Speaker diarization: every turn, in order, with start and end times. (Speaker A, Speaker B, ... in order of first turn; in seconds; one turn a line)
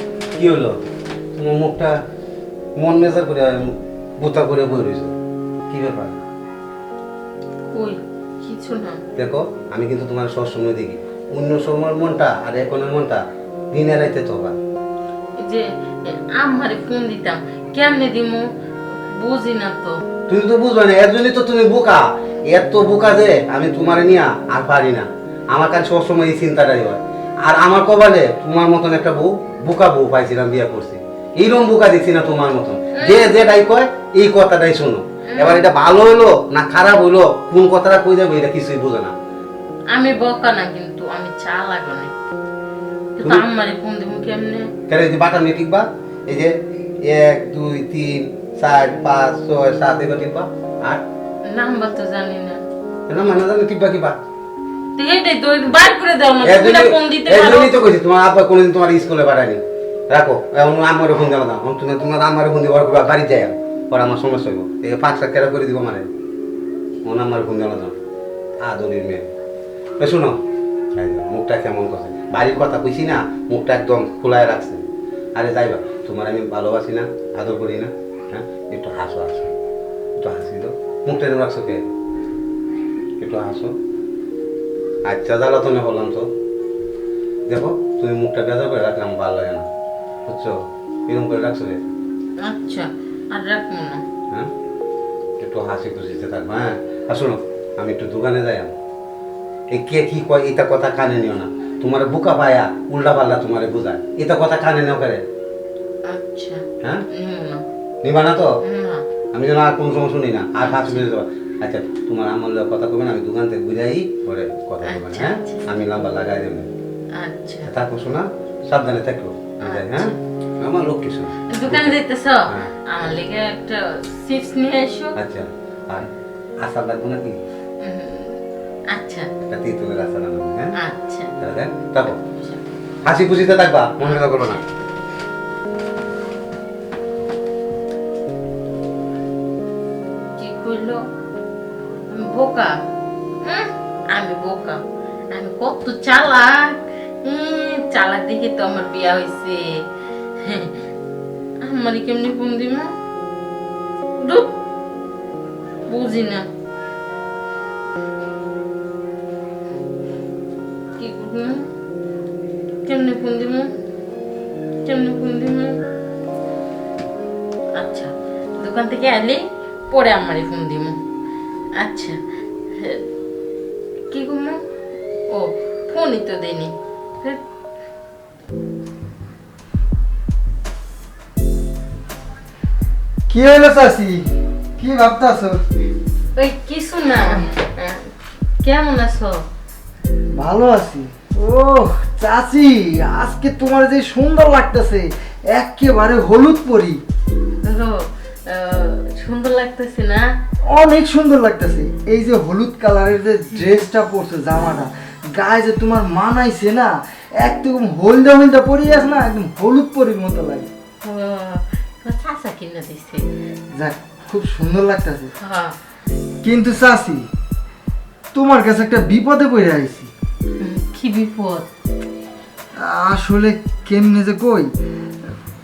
Speaker A: 0.4-0.8
Speaker A: 1.4-1.9
Speaker A: 2.8-5.1
Speaker A: 5.7-6.2
Speaker B: 7.7-9.0
Speaker A: 9.2-14.5
Speaker B: 15.4-18.4
Speaker B: 19.1-20.0
Speaker A: 20.3-39.1
Speaker B: 33.0-33.5
Speaker B: 35.3-35.6
Speaker B: 39.9-42.1
Speaker B: 43.2-44.7
Speaker A: 44.9-51.0
Speaker B: 51.5-52.6
Speaker A: 53.1-54.2
Speaker B: 55.0-57.8
Speaker A: 56.4-66.1
Speaker A: 67.0-67.9
Speaker A: 68.6-69.2
Speaker A: 70.0-70.4
Speaker A: 71.0-74.8
Speaker A: 75.4-79.5
Speaker A: 80.2-81.8
Speaker A: 83.2-83.7
Speaker A: 85.0-86.2
Speaker A: 87.5-89.7
Speaker A: 90.3-90.5
Speaker A: 91.1-91.8
Speaker B: 92.4-94.0
Speaker A: 95.4-98.7
Speaker A: 99.7-105.2
Speaker B: 106.1-107.6
Speaker A: 108.0-108.5
Speaker B: 108.6-109.0
Speaker A: 109.3-116.7
Speaker B: 110.6-111.0
Speaker B: 114.8-115.6
Speaker B: 117.2-117.7
Speaker A: 117.7-122.0
Speaker B: 119.6-120.2
Speaker B: 121.5-125.1
Speaker A: 125.2-126.1
Speaker A: 126.6-127.4
Speaker B: 127.8-128.4
Speaker B: 128.9-129.3
Speaker A: 129.5-130.7
Speaker B: 130.8-131.3
Speaker A: 131.4-132.2
Speaker B: 132.1-132.6
Speaker A: 133.0-134.6
Speaker B: 134.0-134.6
Speaker B: 140.4-141.0
Speaker B: 142.1-142.7
Speaker B: 143.4-144.8
Speaker B: 145.3-149.7
Speaker B: 150.4-150.8
Speaker B: 151.6-152.9
Speaker B: 154.2-154.5
Speaker B: 155.8-156.5
Speaker B: 161.0-161.7
Speaker B: 162.8-163.7
Speaker B: 164.8-165.8
Speaker B: 167.8-171.0
Speaker B: 171.8-172.2
Speaker B: 172.8-173.0
Speaker B: 174.1-174.6
Speaker B: 175.3-177.4
Speaker C: 183.3-184.2
Speaker C: 184.8-185.6
Speaker B: 186.3-189.4
Speaker C: 190.3-197.0
Speaker B: 197.6-200.3
Speaker C: 200.7-210.7
Speaker B: 211.0-213.2
Speaker C: 213.8-215.3
Speaker B: 215.4-215.7
Speaker C: 216.4-217.3
Speaker C: 218.3-220.1
Speaker B: 220.6-221.7
Speaker C: 222.8-224.7